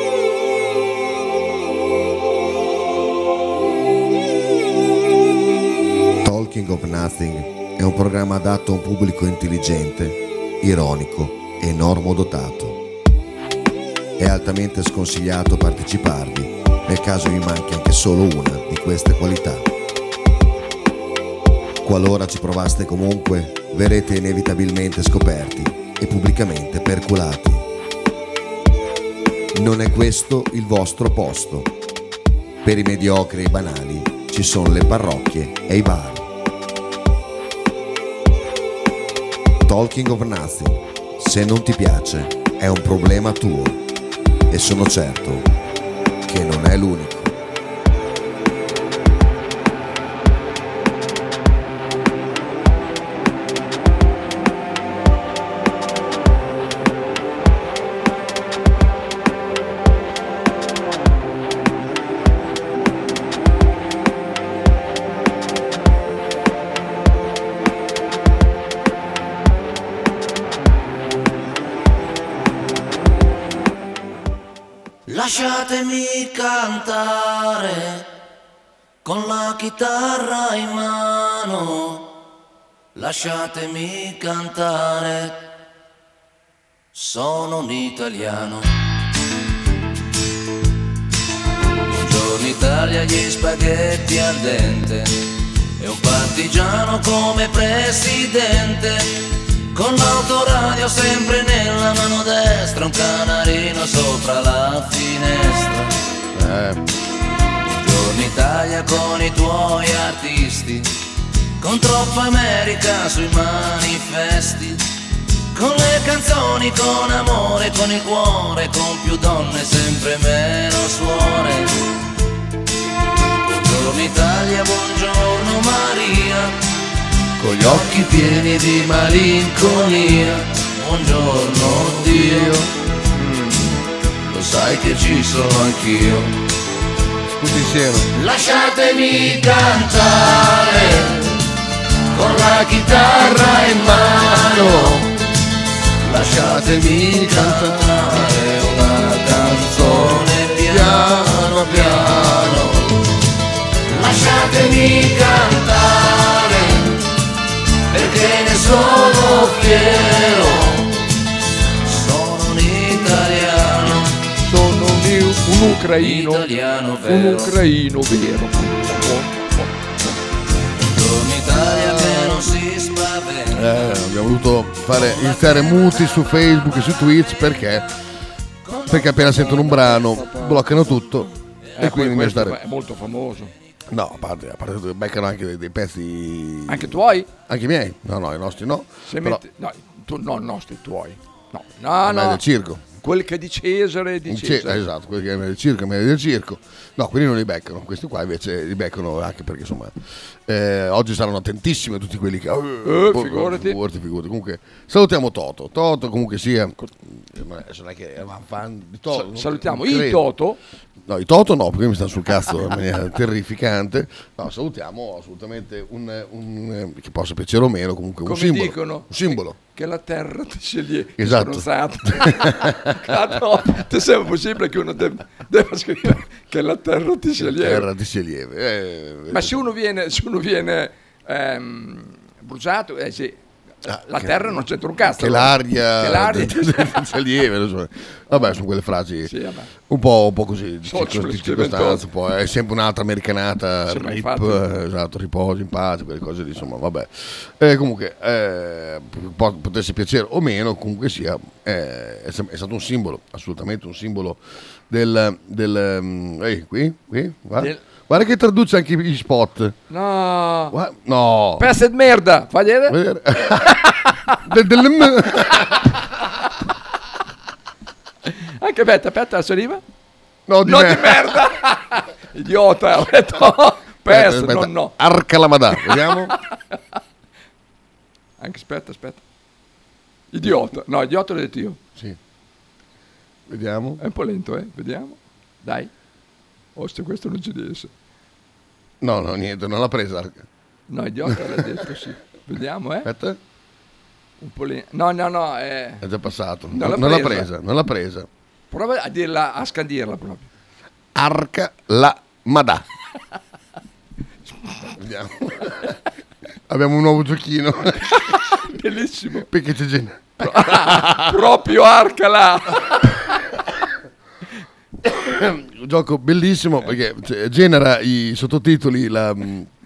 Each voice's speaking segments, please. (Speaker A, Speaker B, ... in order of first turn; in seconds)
Speaker A: 6.2-12.8, 14.2-19.7, 21.8-27.6, 29.5-31.7, 32.6-36.3, 39.6-43.8, 44.5-45.5, 46.3-47.3
Speaker B: 75.1-78.0, 79.0-82.1, 83.0-85.4, 86.9-88.7, 91.8-95.2, 95.8-105.9, 107.7-110.9, 111.6-114.8, 115.5-121.8, 123.4-126.6, 127.4-132.7, 134.3-136.4, 138.1-141.4, 142.1-145.1, 146.1-152.8, 153.9-157.0, 157.9-160.9, 161.8-164.2, 165.9-167.6, 170.8-173.9, 175.1-176.1, 178.7-179.8
Speaker C: 106.3-106.8, 127.4-127.8, 132.1-132.6, 137.2-138.1, 143.9-144.9, 146.1-148.0, 150.7-152.7, 173.5-177.9, 178.9-182.6, 183.9-189.4, 192.0-192.8, 194.3-199.9, 200.5-210.3, 211.1-219.6, 221.2-223.0, 227.4-229.7, 233.9-239.3, 239.9-259.8, 260.7-261.7, 262.9-263.9, 264.4-265.9, 270.5-271.5, 274.1-276.4, 283.5-284.0, 289.0-290.4, 293.0-293.4, 296.0-298.3, 301.1-302.8, 305.0-305.9, 306.7-308.2, 309.5-311.4, 315.0-319.7
Speaker D: 133.1-133.8, 164.4-166.5, 167.0-170.2, 179.5-180.6, 181.8-183.5, 186.7-187.3, 189.1-192.4, 193.0-194.8, 202.8-203.8, 209.1-210.6, 218.2-227.9, 229.3-237.1, 239.3-239.7, 240.9-242.0, 243.9-244.7, 259.9-260.7, 261.6-263.0, 263.9-264.1, 268.2-269.8, 270.6-274.9, 275.7-276.8, 278.4-279.2, 280.3-281.8, 284.0-285.9, 286.8-287.9, 290.9-293.1, 294.4-296.0, 296.7-297.5, 298.7-300.5, 308.3-309.5, 310.4-313.1